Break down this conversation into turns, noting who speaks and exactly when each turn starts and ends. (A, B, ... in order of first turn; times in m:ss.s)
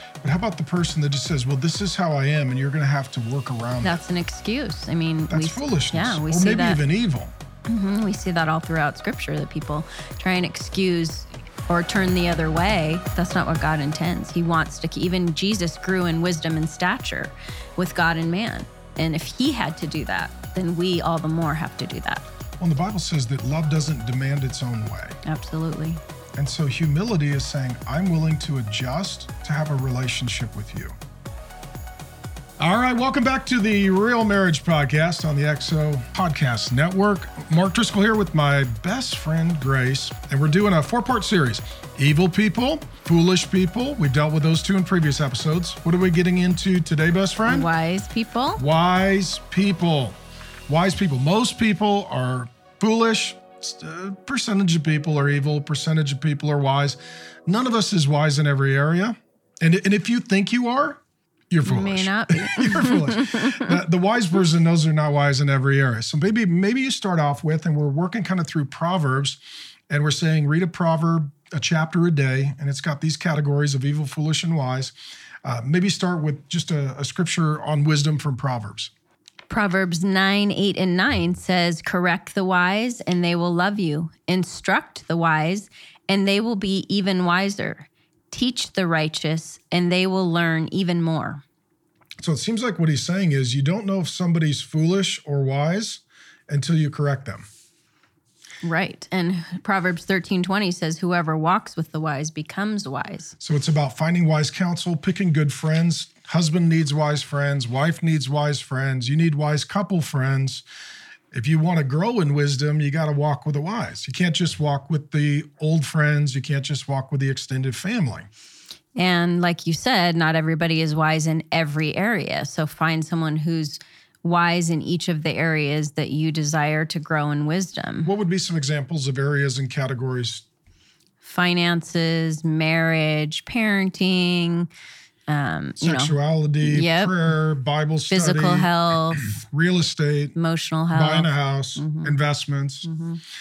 0:00.2-0:04.0 A
0:03.8-0:06.8 B
0:05.3-0:07.3 A
0:07.7-0:22.3 B
0:22.6-0:25.2 A
0:25.2-0:26.0 B
0:26.4-0:31.0 A
0:32.6-0:47.7 A
0:47.5-0:48.6 B
0:48.6-1:01.0 A
1:01.5-1:18.9 A
1:01.7-1:03.8 B
1:19.5-1:31.4 B
1:32.2-1:37.5 A
1:38.6-1:43.4 B
1:43.4-1:50.6 A
1:51.3-1:58.3 A
1:59.0-2:08.1 B
2:08.0-2:10.5 A
2:11.2-2:14.7 B
2:15.3-2:17.2 B
2:15.8-2:20.4 A
2:18.1-2:19.3 B
2:20.4-2:22.1 B
2:20.9-2:22.9 A
2:22.8-2:23.2 B